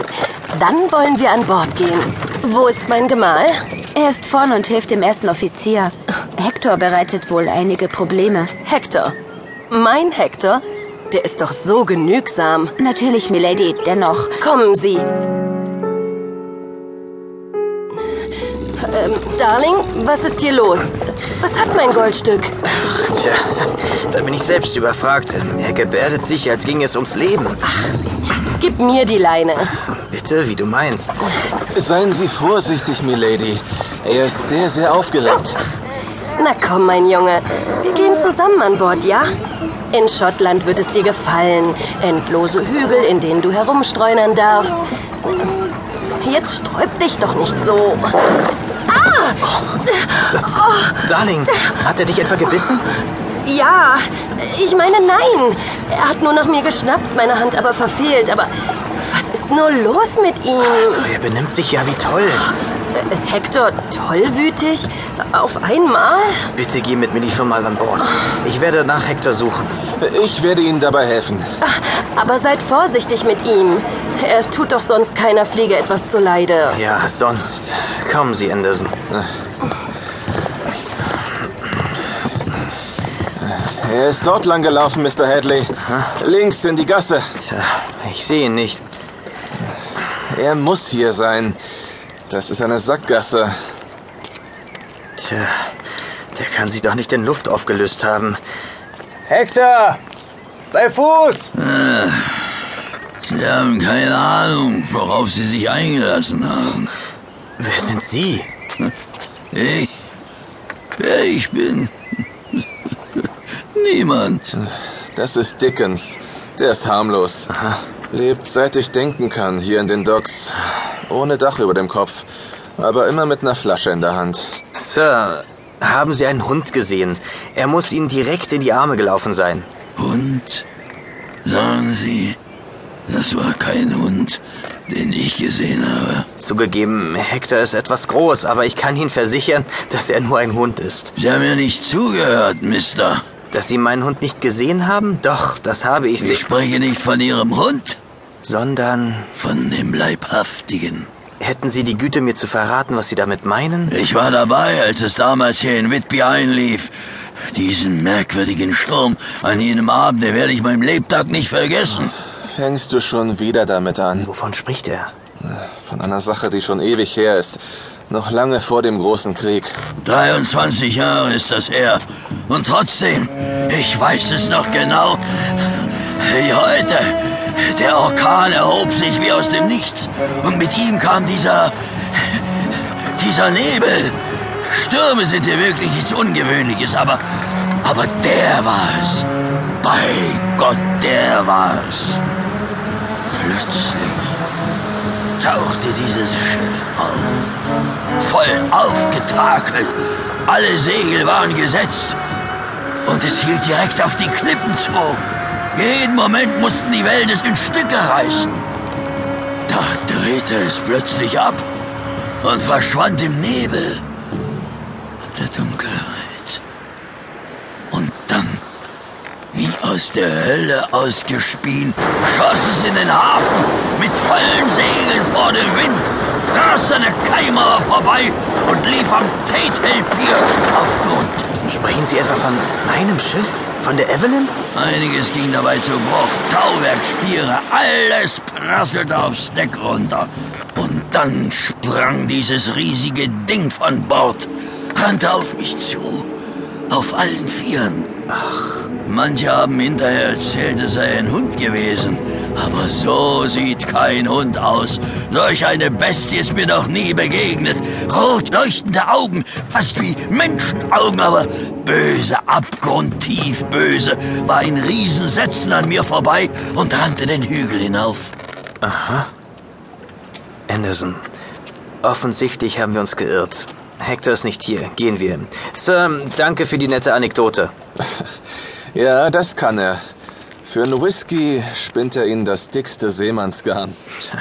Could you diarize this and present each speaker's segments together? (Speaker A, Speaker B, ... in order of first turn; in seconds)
Speaker A: 0.5-3.6, 8.6-9.1, 9.7-12.8, 14.4-15.1, 18.8-22.5, 28.4-29.8, 36.4-39.3, 39.9-44.8, 46.2-48.2, 48.9-51.0, 53.4-61.0, 62.9-66.5, 71.6-76.8
Speaker B: 3.9-8.5, 12.8-14.3
Speaker C: 22.7-27.6, 30.0-31.1, 49.5-49.7, 51.0-52.8, 60.7-62.5, 66.5-69.7, 76.7-79.0, 87.5-88.8, 95.2-95.7, 96.3-98.4, 99.3-100.0, 100.7-101.5, 107.6-108.5, 117.5-117.8, 124.7-129.7, 136.4-141.1, 143.5-146.4, 148.4-149.3, 151.4-153.9, 164.2-165.1, 231.6-234.5, 248.3-248.9, 268.8-269.3, 270.7-271.2, 272.0-277.7
Speaker D: 31.7-35.6, 70.0-71.5, 83.4-87.2, 90.2-91.6, 92.3-93.5, 114.5-117.5, 118.1-124.6, 162.4-164.3, 165.4-169.8, 278.9-280.0, 280.6-284.0
Speaker E: 101.5-102.6, 103.2-106.9, 109.5-109.9, 111.0-111.9, 113.7-114.5, 130.0-130.7, 131.4-132.4, 133.1-136.3, 141.2-143.2, 146.2-148.0, 149.3-151.1, 153.9-156.9, 157.5-162.1, 170.0-187.2, 187.8-189.3, 189.8-192.2, 193.3-194.4, 195.4-197.6, 198.2-202.2, 203.0-208.7, 209.7-211.6, 212.4-214.0, 215.2-216.6, 217.9-218.6, 219.5-231.6, 234.7-246.3, 246.9-248.1, 249.0-268.3